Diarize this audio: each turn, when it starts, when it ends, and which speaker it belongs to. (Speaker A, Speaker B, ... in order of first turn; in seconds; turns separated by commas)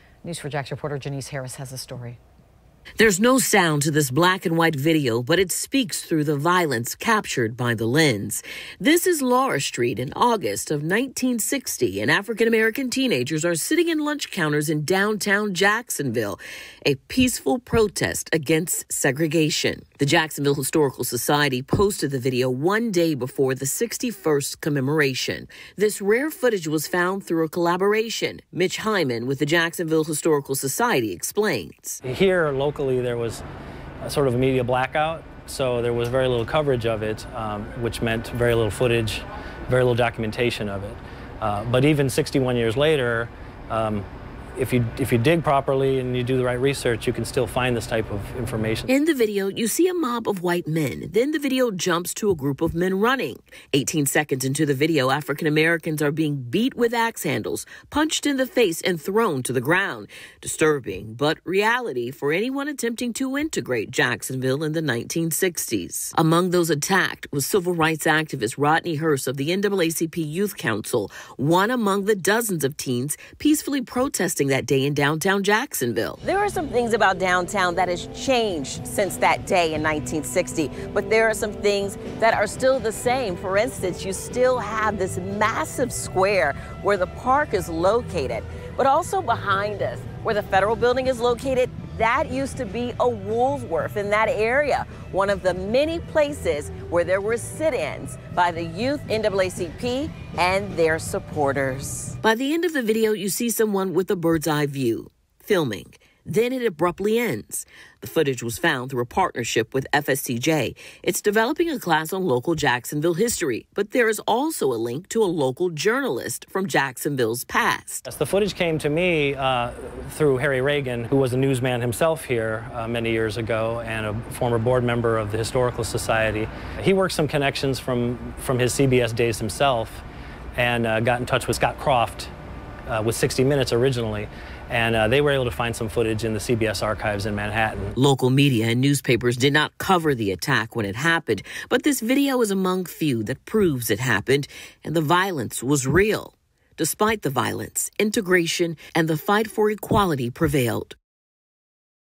Speaker A: 0.2-2.2, Speaker B: 3.0-32.0, Speaker C: 32.0-33.4, Speaker C: 34.0-44.0, Speaker C: 44.5-48.9, Speaker B: 48.9-76.2, Speaker D: 76.2-102.2, Speaker B: 102.2-118.0, Speaker C: 118.0-130.0, Speaker C: 130.6-132.3, Speaker C: 132.9-137.9, Speaker B: 137.9-150.9